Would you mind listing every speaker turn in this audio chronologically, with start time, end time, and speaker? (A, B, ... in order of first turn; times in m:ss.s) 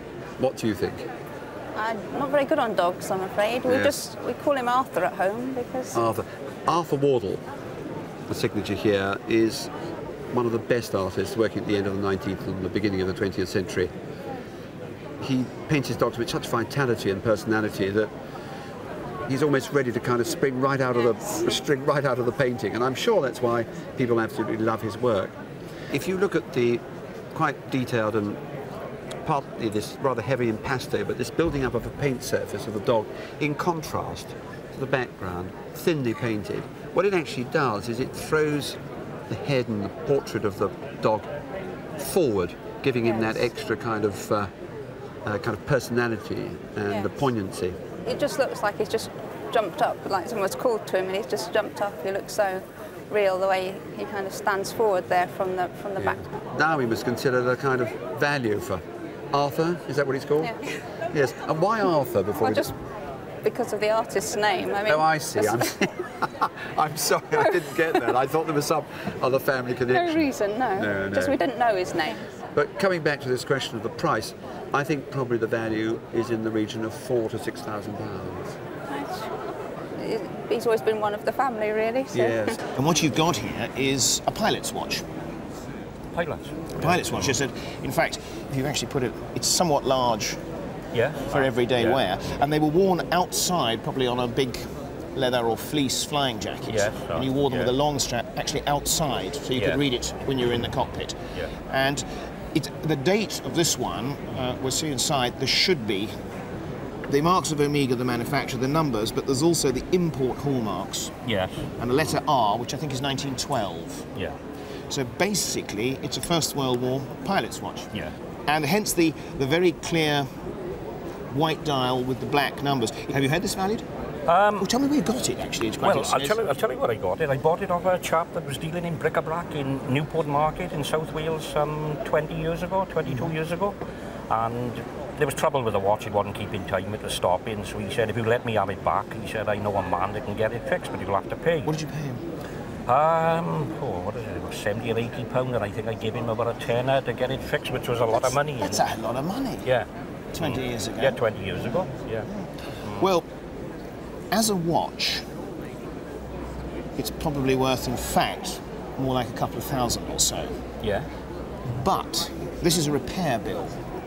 0:00.4-0:01.1 A
0:01.8-0:06.0 B
0:03.7-0:04.0 A
0:05.9-0:07.4 A
0:08.3-0:09.7 A
0:10.3-0:13.9 A
0:15.2-0:18.1 A
0:19.3-0:25.4 A
0:25.9-0:28.4 A
0:29.2-0:41.3 A
0:42.0-0:44.5 A
0:45.2-0:47.8 A
0:48.0-0:56.2 B
0:56.0-1:00.6 A
1:01.1-1:02.7 A
1:02.4-1:02.7 B
1:03.4-1:05.7 B
1:04.8-1:11.4 A
1:09.9-1:12.2 B
1:12.5-1:18.6 A
1:20.0-1:22.5 B
1:22.1-1:22.6 A
1:22.8-1:25.0 C
1:26.1-1:27.4 D
1:26.8-1:30.4 C
1:30.9-1:32.0 D
1:31.2-1:46.1 C
1:36.7-1:37.7 D
1:39.6-1:39.8 D
1:47.1-1:51.1 C
1:51.3-1:51.6 D
1:51.8-1:54.1 C
1:54.9-1:57.9 C
1:58.5-2:00.3 C
2:01.3-2:03.8 C
2:04.3-2:04.7 D
2:04.6-2:06.4 C
2:05.8-2:13.8 D
2:14.3-2:21.8 D
2:21.6-2:22.2 C
2:22.9-2:28.9 D
2:28.2-2:29.7 C
2:29.6-2:32.3 D
2:30.4-2:31.6 C
2:32.3-2:33.3 C
2:32.8-2:33.1 D
2:34.3-2:35.2 C
2:37.0-2:40.5 C
2:40.8-2:41.1 D
2:41.7-2:43.8 C